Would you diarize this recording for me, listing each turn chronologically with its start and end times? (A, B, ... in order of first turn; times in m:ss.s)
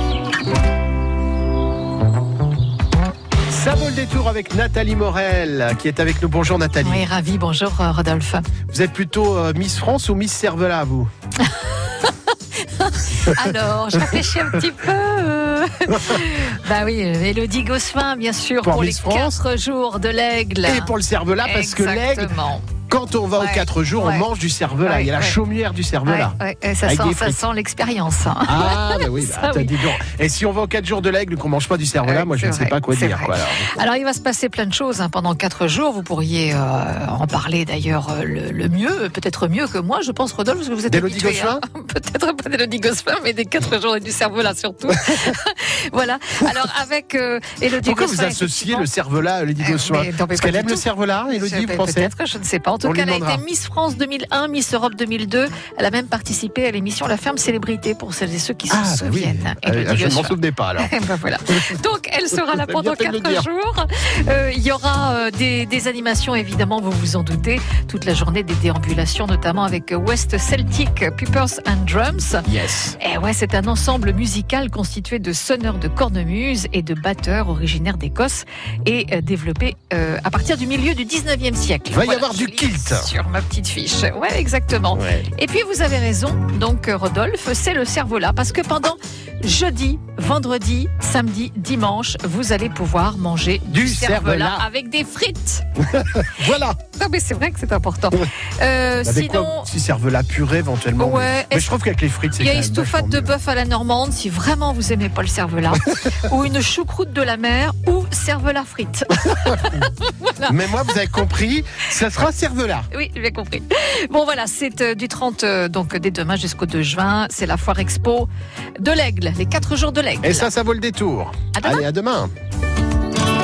0:03.5-0:07.1 A
0:06.8-0:08.5 B
0:08.7-0:11.1 A
0:11.4-0:22.7 B
0:13.9-0:14.3 A
0:15.9-0:16.2 A
0:18.6-0:19.4 A
0:20.6-0:22.3 A
0:22.9-0:27.4 A
0:23.4-0:24.3 B
0:24.8-0:25.4 B
0:26.0-0:29.9 B
0:28.5-0:33.7 A
0:32.0-0:48.9 B
0:40.9-0:41.6 A
0:47.8-0:52.1 A
0:49.6-1:12.5 B
0:52.8-0:53.4 A
0:58.7-1:00.9 A
1:01.5-1:01.8 A
1:02.3-1:03.5 A
1:12.5-1:13.0 A
1:13.0-1:35.6 B
1:21.9-1:23.1 A
1:24.9-1:25.3 A
1:33.7-1:34.7 A
1:35.8-1:36.8 A
1:36.9-1:39.7 B
1:39.0-1:43.3 A
1:41.0-1:41.8 B
1:42.3-1:50.8 B
1:49.3-1:49.8 A
1:50.4-1:52.9 A
1:52.9-1:58.3 B
1:58.8-2:00.5 B
2:00.2-2:02.3 A
2:01.5-2:01.9 B